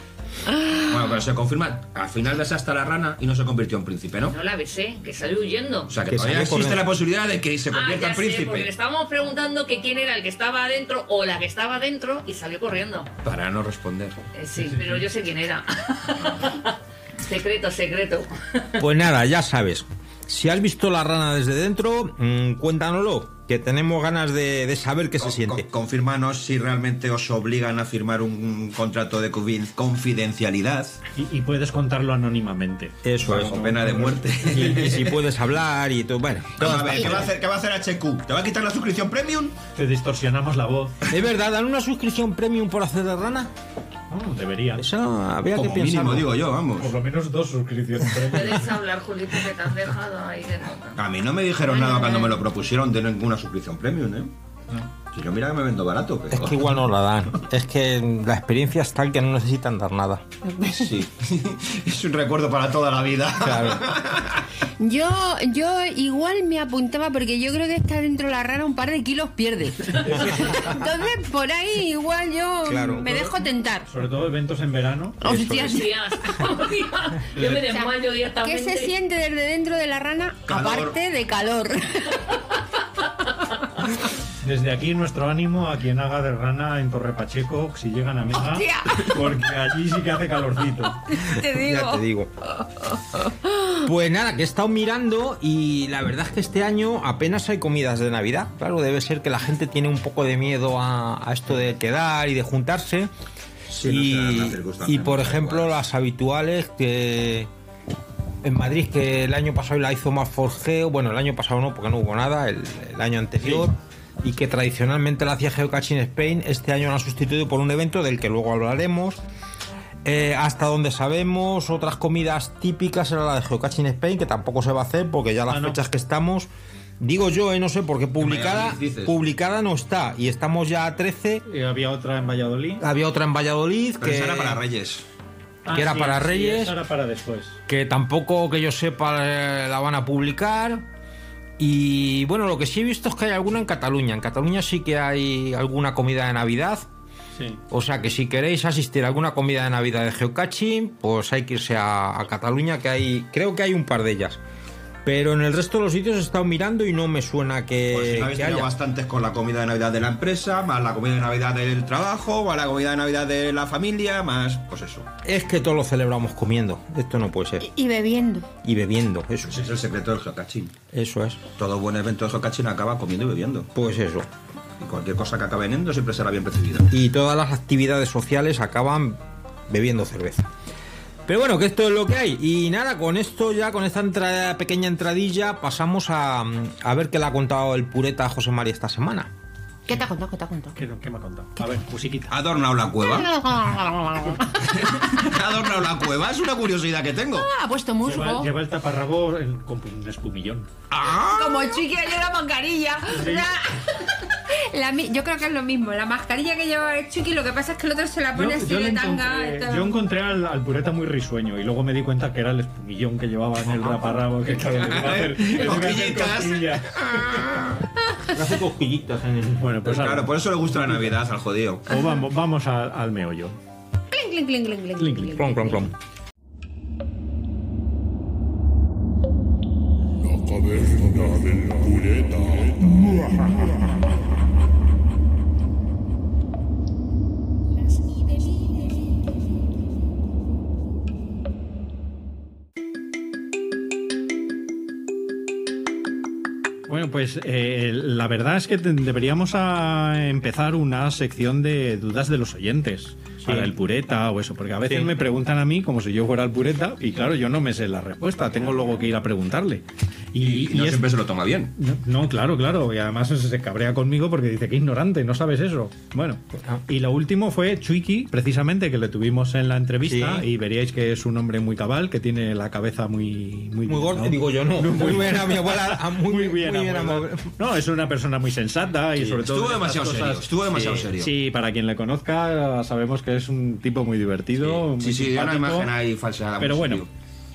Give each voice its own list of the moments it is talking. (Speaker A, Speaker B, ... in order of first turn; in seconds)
Speaker A: 0.5-0.8, 36.7-37.1, 60.4-60.9, 64.8-73.9, 75.2-75.9, 77.4-82.3, 88.4-89.2, 91.1-92.0, 92.6-93.8, 167.6-168.5, 189.9-190.7, 193.0-194.5, 197.3-198.5, 201.2-210.0, 224.1-225.9
Speaker B: 0.9-4.3, 5.9-8.7, 13.2-14.2, 25.2-31.0, 33.2-35.2, 36.6-39.6, 45.5-46.9, 51.0-54.3, 55.1-56.6, 60.6-64.4, 80.5-81.0, 103.7-105.7, 128.2-129.2, 134.0-135.0, 157.9-165.1, 169.4-170.7, 171.6-173.7, 174.8-176.9, 192.3-193.3, 194.6-197.5, 200.9-201.8, 214.5-217.8, 219.8-221.9, 260.4-261.7, 279.2-281.3, 284.6-287.1
Speaker C: 4.3-5.9, 7.7-13.1, 14.3-18.6, 48.3-51.0, 51.7-52.2, 75.5-78.9
Speaker D: 6.1-6.9, 18.8-25.6, 33.0-33.6, 34.4-37.3, 41.1-43.5, 44.8-46.4, 56.3-60.2, 63.4-63.9, 72.6-73.3, 75.2-75.8, 91.2-92.3, 93.8-103.1, 103.7-107.5, 108.4-119.2, 120.0-131.4, 132.8-134.6, 135.7-136.8, 137.7-140.8, 141.6-146.8, 147.7-154.4, 155.0-158.7, 165.2-167.7, 168.6-169.7, 170.9-171.4, 173.7-174.3, 176.9-180.5, 181.2-189.3, 218.3-219.6, 225.3-225.9, 253.4-253.7, 254.9-255.1, 270.0-270.5, 273.9-277.6, 280.7-281.1
Speaker E: 14.7-14.9, 31.1-34.2, 39.8-41.0, 44.1-44.8, 46.8-48.7, 73.9-75.2, 84.4-91.0, 125.5-125.8, 131.4-132.8, 135.6-137.6, 147.3-147.6, 190.7-192.3, 198.0-200.7, 203.1-203.5, 208.3-216.9, 219.5-221.1, 221.9-223.6, 225.0-225.5, 246.9-261.1, 261.8-280.5, 281.2-285.9, 286.6-287.0